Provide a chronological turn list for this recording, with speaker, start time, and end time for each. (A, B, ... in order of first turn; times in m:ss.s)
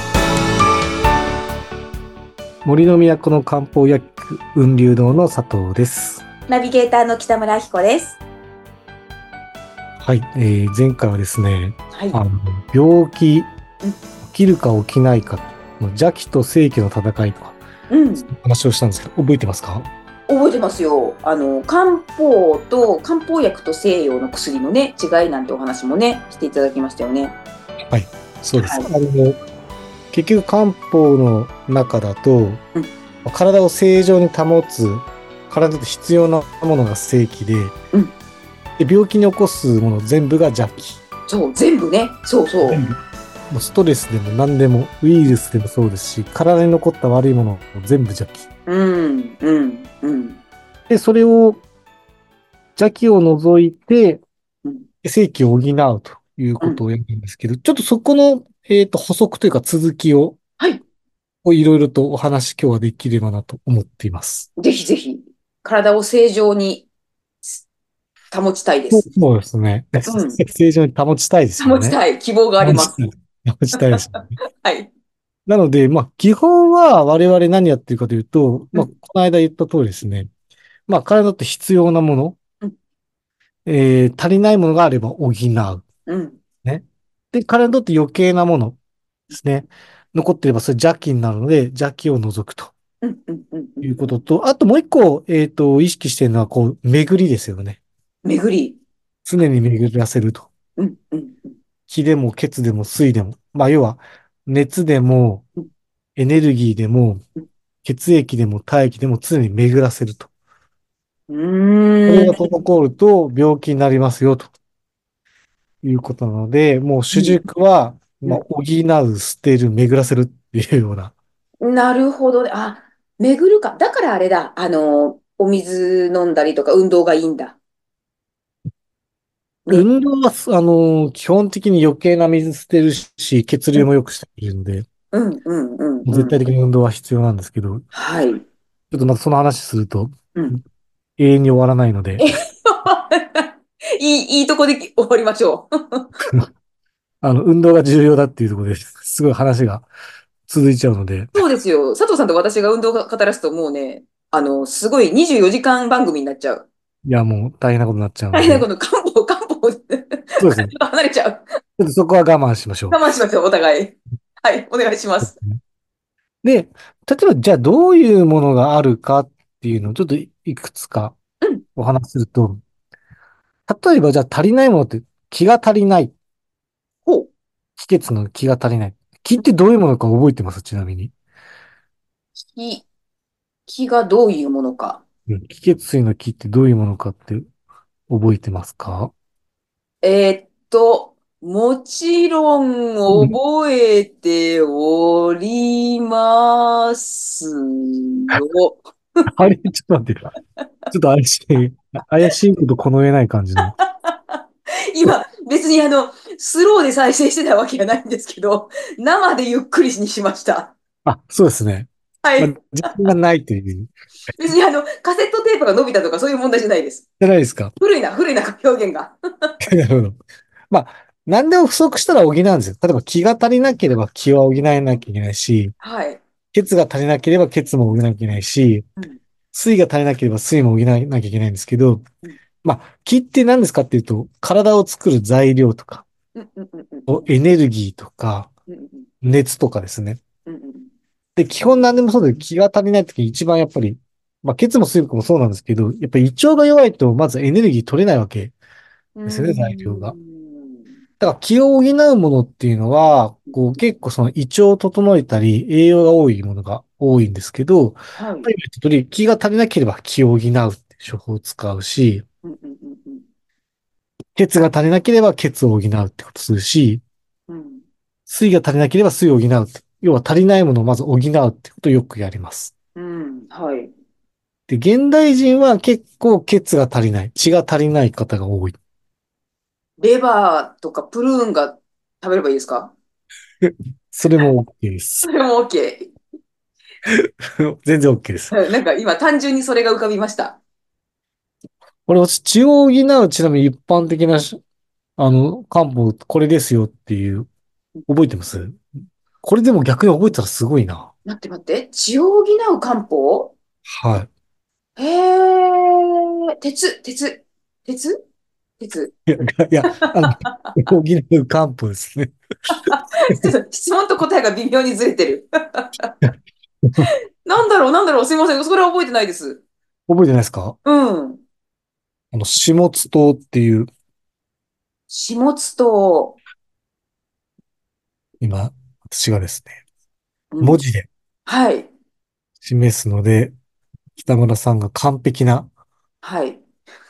0:02.6-0:06.2 A
0:06.5-0:08.2 B
0:10.0-0:13.5 A
0:14.2-0:17.6 A
0:17.9-0:18.3 B
0:18.2-0:19.9 A
0:20.3-0:27.3 B
0:27.9-0:29.4 A
0:28.6-0:28.9 B
0:30.1-0:32.6 A
0:33.2-0:37.8 A
0:38.8-0:41.0 A
0:41.3-0:42.8 B
0:42.6-0:43.0 A
0:43.5-0:48.5 A
0:48.7-0:50.4 B
0:50.9-0:51.6 A
0:52.8-0:54.2 A
0:55.0-1:00.4 A
1:01.4-1:04.5 A
1:04.6-1:06.9 B
1:08.3-1:09.0 B
1:08.9-1:12.0 A
1:10.1-1:10.4 B
1:11.6-1:13.0 B
1:12.6-1:14.4 A
1:13.8-1:14.9 B
1:15.5-1:20.3 A
1:20.9-1:22.4 A
1:23.7-1:25.8 A
1:26.1-1:26.4 B
1:26.6-1:28.8 A
1:29.3-1:32.7 A
1:33.0-1:34.2 B
1:33.8-1:37.8 A
1:38.2-1:38.8 B
1:39.3-1:40.5 A
1:40.8-1:41.6 B
1:41.9-1:45.4 A
1:46.2-1:47.2 A
1:47.8-1:50.3 A
1:51.3-1:52.4 B
1:52.1-1:54.5 A
1:55.8-2:01.1 A
1:57.1-1:57.4 B
2:01.6-2:07.6 B
2:09.7-2:14.9 A
2:15.1-2:16.4 B
2:16.1-2:17.9 A
2:17.9-2:18.4 B
2:18.9-2:20.6 A
2:21.2-2:22.3 A
2:22.2-2:26.1 B
2:27.2-2:29.9 A
2:30.5-2:31.4 A
2:31.4-2:36.7 B
2:37.1-2:38.7 A
2:38.3-2:41.6 B
2:40.4-2:40.7 A
2:41.8-2:43.0 A
2:42.9-2:45.4 B
2:45.2-2:45.6 A
2:46.4-2:51.2 A
2:51.8-2:52.6 A
2:53.7-2:56.1 A
2:57.8-3:01.1 A
3:02.4-3:02.8 B
3:03.7-3:05.0 B
3:05.3-3:07.5 A
3:08.1-3:09.1 A
3:10.0-3:18.8 B
3:13.1-3:13.4 A
3:19.3-3:20.3 A
3:20.9-3:23.7 A
3:24.0-3:24.4 B
3:24.9-3:30.8 B
3:31.1-3:33.9 A
3:32.2-3:33.1 B
3:34.4-3:37.0 B
3:37.2-3:37.7 A
3:37.8-3:39.5 B
3:39.6-3:40.2 A
3:40.7-3:45.7 A
3:45.8-3:46.2 B
3:46.5-3:48.9 A
3:49.5-3:52.0 A
3:52.6-3:56.1 A
3:56.4-3:57.3 B
3:57.1-3:58.5 A
3:58.7-3:59.1 B
3:59.2-4:00.2 A
4:00.5-4:00.9 B
4:01.4-4:08.6 A
4:09.2-4:10.9 B
4:09.3-4:10.2 A
4:11.2-4:22.2 A
4:18.2-4:18.5 B
4:22.4-4:23.2 B
4:24.4-4:27.0 A
4:27.5-4:27.8 B
4:28.3-4:32.7 A
4:33.0-4:33.9 B
4:34.7-4:38.8 A
4:40.0-4:42.9 B
4:43.6-4:45.3 A
4:45.2-4:46.1 B
4:47.0-4:48.6 A
4:48.5-4:50.6 B
4:52.1-4:54.6 A
4:55.2-4:57.5 A
4:58.1-4:58.8 A
4:59.4-5:01.1 A
5:01.3-5:03.6 B
5:03.9-5:04.3 A
5:05.0-5:08.2 B
5:08.8-5:09.2 B
5:09.3-5:12.3 A
5:09.9-5:10.8 B
5:12.7-5:16.1 B
5:17.4-5:19.6 B
5:20.1-5:20.8 A
5:20.8-5:21.4 B
5:22.3-5:23.9 A
5:25.1-5:26.4 B
5:28.4-5:29.8 A
5:30.5-5:30.8 B
5:30.6-5:31.1 A
5:31.5-5:31.9 B
5:32.6-5:33.5 A
5:34.2-5:35.7 A
5:36.2-5:36.6 B